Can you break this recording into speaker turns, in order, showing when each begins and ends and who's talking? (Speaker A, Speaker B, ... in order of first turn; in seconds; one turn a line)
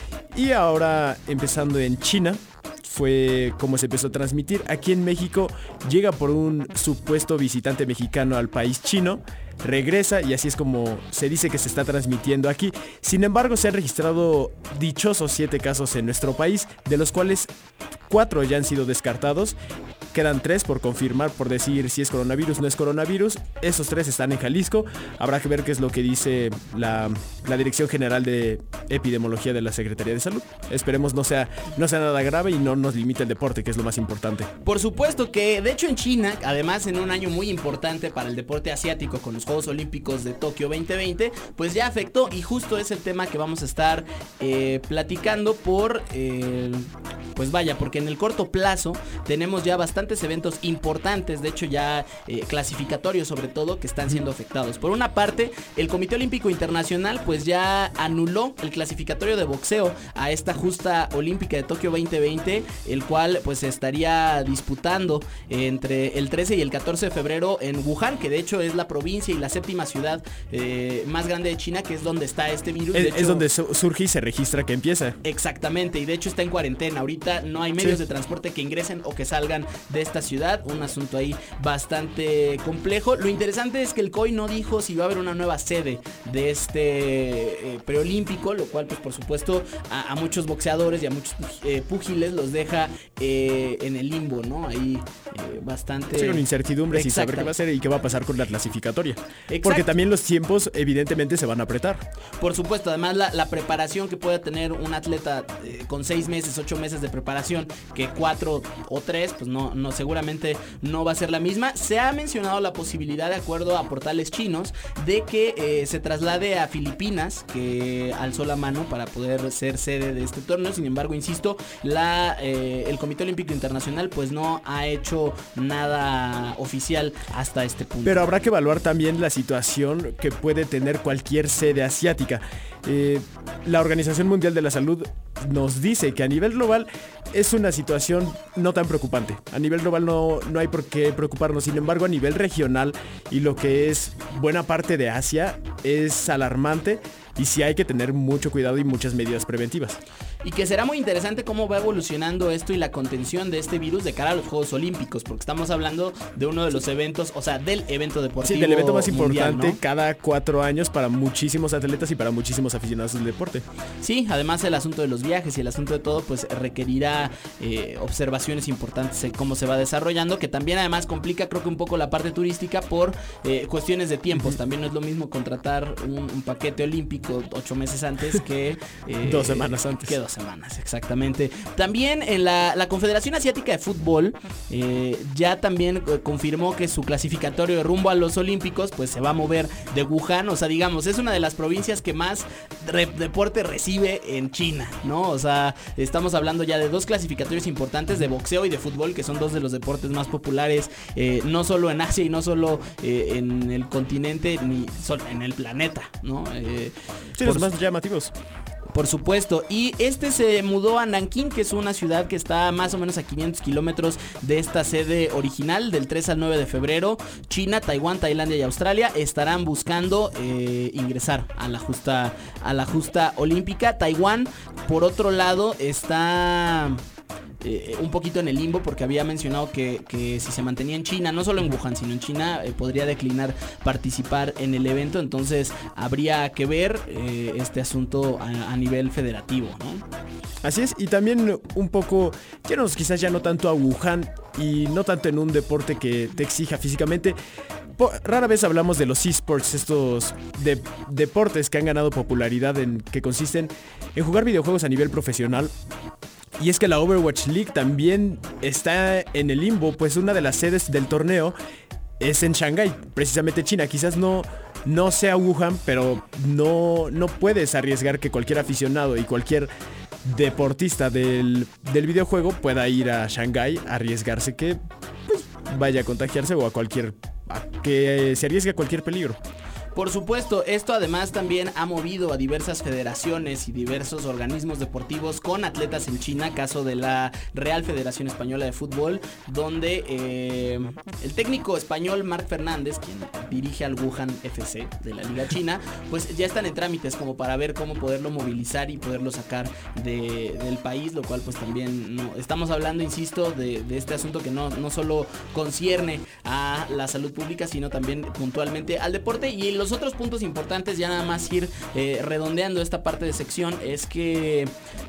Speaker A: 0.3-17.5
Speaker A: 18.1-19.6
Speaker A: 20.1-34.5
Speaker B: 34.6-73.5
Speaker A: 72.9-75.2
Speaker B: 75.2-97.5
Speaker A: 96.1-102.0
Speaker B: 99.5-100.0
Speaker B: 102.4-128.3
Speaker A: 128.1-150.0
Speaker B: 150.4-159.8
Speaker A: 158.4-163.6
Speaker B: 164.0-207.7
Speaker A: 179.2-180.1
Speaker A: 207.4-208.3
Speaker B: 208.9-227.0
Speaker B: 227.6-240.1
Speaker A: 240.6-247.4
Speaker A: 248.0-255.7
Speaker A: 256.6-261.6
Speaker A: 262.2-269.7
Speaker A: 270.2-279.4
Speaker B: 279.9-314.7